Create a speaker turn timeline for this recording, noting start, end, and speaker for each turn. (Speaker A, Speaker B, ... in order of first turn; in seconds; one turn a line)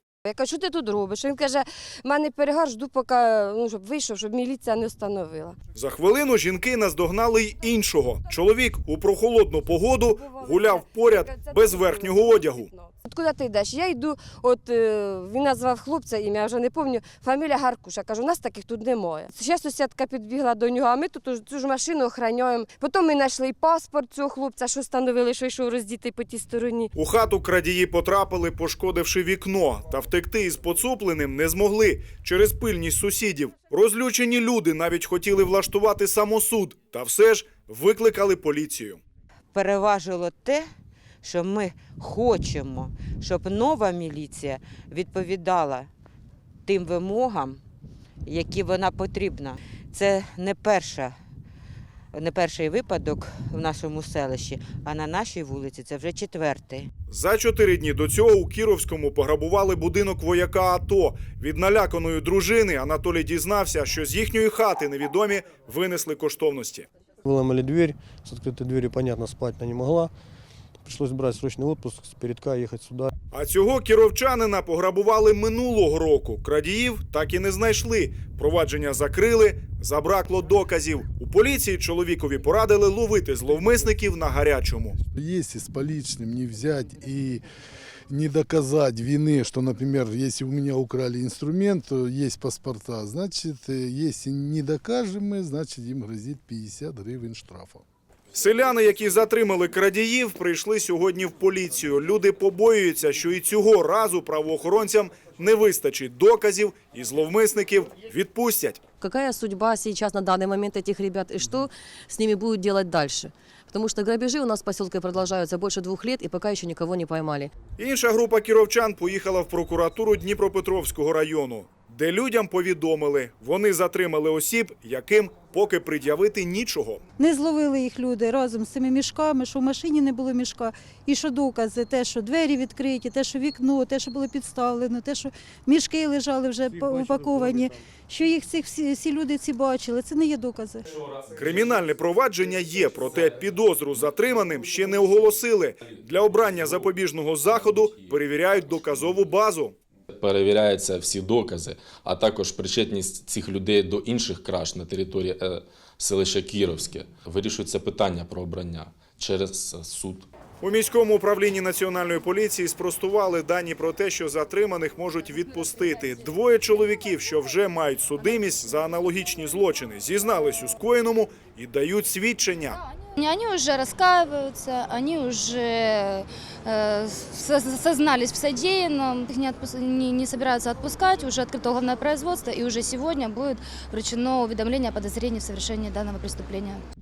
Speaker A: 0.2-5.5
Speaker B: 5.8-12.7
Speaker A: 10.1-26.9
Speaker B: 26.9-39.0
Speaker C: 39.5-40.7
Speaker C: 41.2-45.9
Speaker C: 46.7-47.6
Speaker C: 48.2-51.2
Speaker C: 52.1-56.9
Speaker B: 57.1-66.9
Speaker D: 67.2-70.1
Speaker D: 70.8-73.1
Speaker B: 73.3-85.0
Speaker E: 85.1-87.4
Speaker E: 88.1-97.8
Speaker B: 98.3-108.8
Speaker F: 109.0-117.5
Speaker B: 117.8-127.0
Speaker G: 127.2-140.8
Speaker D: 136.7-137.8
Speaker B: 141.3-149.8
Speaker H: 150.2-160.3
Speaker B: 160.6-172.8
Speaker I: 173.2-186.8